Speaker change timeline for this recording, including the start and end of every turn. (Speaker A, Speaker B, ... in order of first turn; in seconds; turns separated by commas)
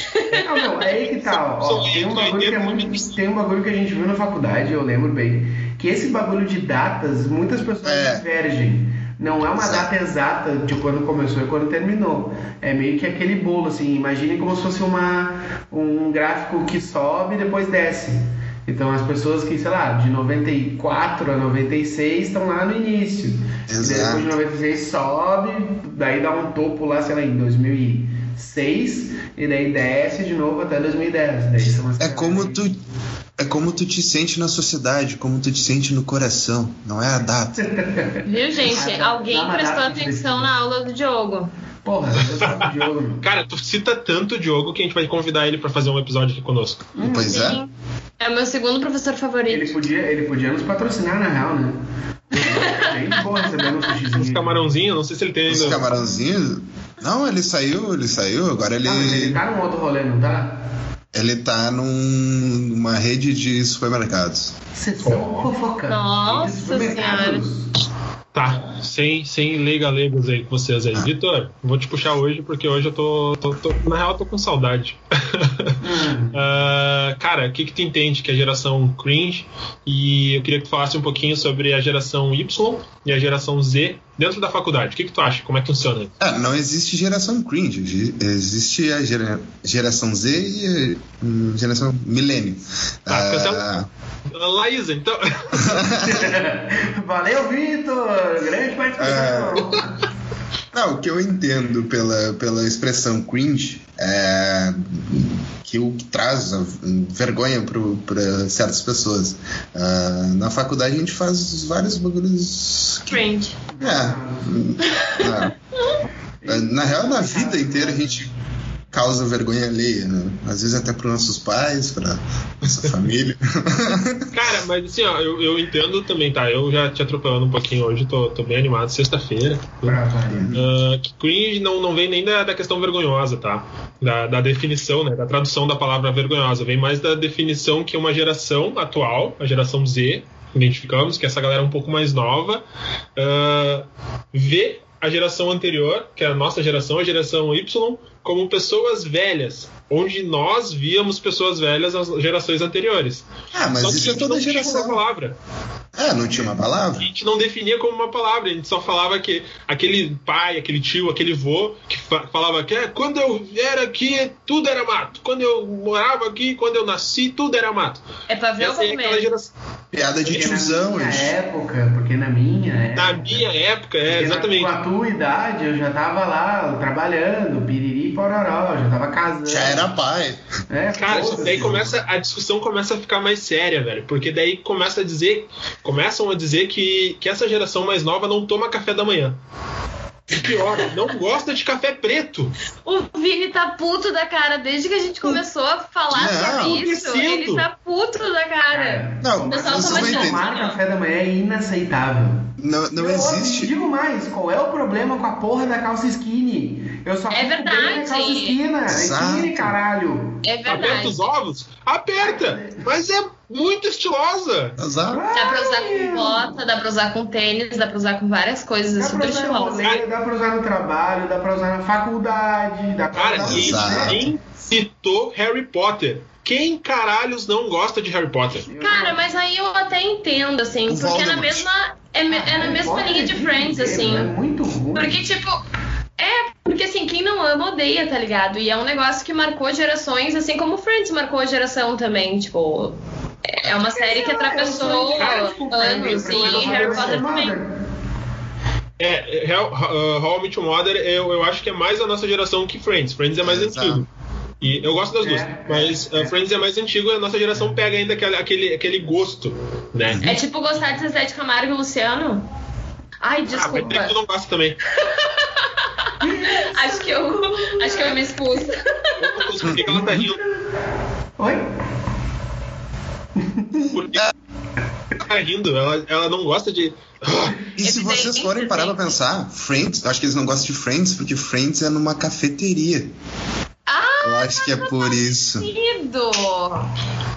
Speaker A: 0.3-32.6, Speaker B: 1.2-3.1, Speaker C: 7.8-8.2, Speaker C: 9.6-9.9, Speaker C: 23.7-24.3, Speaker C: 32.0-32.8, Speaker C: 33.4-37.7, Speaker A: 37.5-40.5, Speaker D: 38.2-41.5, Speaker A: 41.8-43.2, Speaker B: 42.4-46.9, Speaker A: 47.0-47.4, Speaker C: 47.0-47.6, Speaker D: 47.2-49.8, Speaker A: 49.5-51.8, Speaker A: 52.3-54.6, Speaker D: 52.3-53.6, Speaker B: 54.1-55.8, Speaker C: 55.5-59.4, Speaker A: 58.8-60.5, Speaker C: 61.1-64.5, Speaker A: 64.8-67.7, Speaker B: 65.0-65.5, Speaker D: 65.9-67.5, Speaker B: 68.3-75.8, Speaker A: 75.8-76.4, Speaker B: 76.3-86.1, Speaker C: 86.2-93.9, Speaker B: 93.1-93.7, Speaker B: 94.3-95.9, Speaker C: 95.6-96.3, Speaker A: 96.0-99.9, Speaker C: 99.0-99.7, Speaker C: 100.7-113.2, Speaker D: 113.1-113.5, Speaker A: 113.7-114.7, Speaker C: 113.8-115.5, Speaker D: 114.9-115.5, Speaker A: 116.4-118.3, Speaker C: 116.5-118.3, Speaker C: 118.9-124.3, Speaker B: 124.3-130.0, Speaker A: 129.8-130.6, Speaker C: 130.3-130.7, Speaker B: 130.5-142.6, Speaker B: 143.2-155.4, Speaker C: 153.5-155.0, Speaker C: 155.9-157.1, Speaker B: 157.0-168.0, Speaker D: 168.3-169.2, Speaker B: 168.6-169.5, Speaker C: 169.9-171.3, Speaker A: 170.0-173.4, Speaker B: 172.9-174.8, Speaker A: 174.1-179.9, Speaker C: 179.5-180.4, Speaker A: 180.7-181.8, Speaker B: 180.9-189.4, Speaker C: 181.1-181.9, Speaker B: 190.3-192.5, Speaker D: 192.8-200.8, Speaker C: 196.1-196.8, Speaker B: 196.6-197.6, Speaker A: 198.7-210.4, Speaker C: 199.2-200.4, Speaker C: 202.6-203.7, Speaker D: 207.3-208.6, Speaker C: 208.9-209.8, Speaker D: 210.4-211.2, Speaker B: 210.7-214.8, Speaker A: 212.2-212.8, Speaker C: 214.8-215.2, Speaker A: 215.1-216.6, Speaker D: 215.3-219.8, Speaker A: 218.9-224.3, Speaker B: 223.1-228.7, Speaker C: 223.4-224.3, Speaker A: 228.7-229.2, Speaker D: 228.8-234.3, Speaker C: 230.9-231.7, Speaker A: 232.3-235.2, Speaker D: 234.9-235.6, Speaker D: 236.2-247.5, Speaker A: 243.9-247.7, Speaker B: 244.8-247.2, Speaker B: 249.0-254.1, Speaker C: 253.4-254.1, Speaker B: 254.6-260.2, Speaker A: 255.2-256.4, Speaker C: 260.1-260.4, Speaker D: 260.2-262.4, Speaker D: 263.2-264.1, Speaker B: 263.5-264.8, Speaker D: 265.0-269.4, Speaker A: 266.2-268.2, Speaker B: 269.2-270.4, Speaker A: 269.6-270.6, Speaker C: 269.6-269.9, Speaker A: 273.4-274.0, Speaker B: 273.9-274.2, Speaker B: 275.2-277.6, Speaker C: 277.8-283.1, Speaker D: 277.8-279.0, Speaker D: 283.9-286.9, Speaker C: 284.2-285.7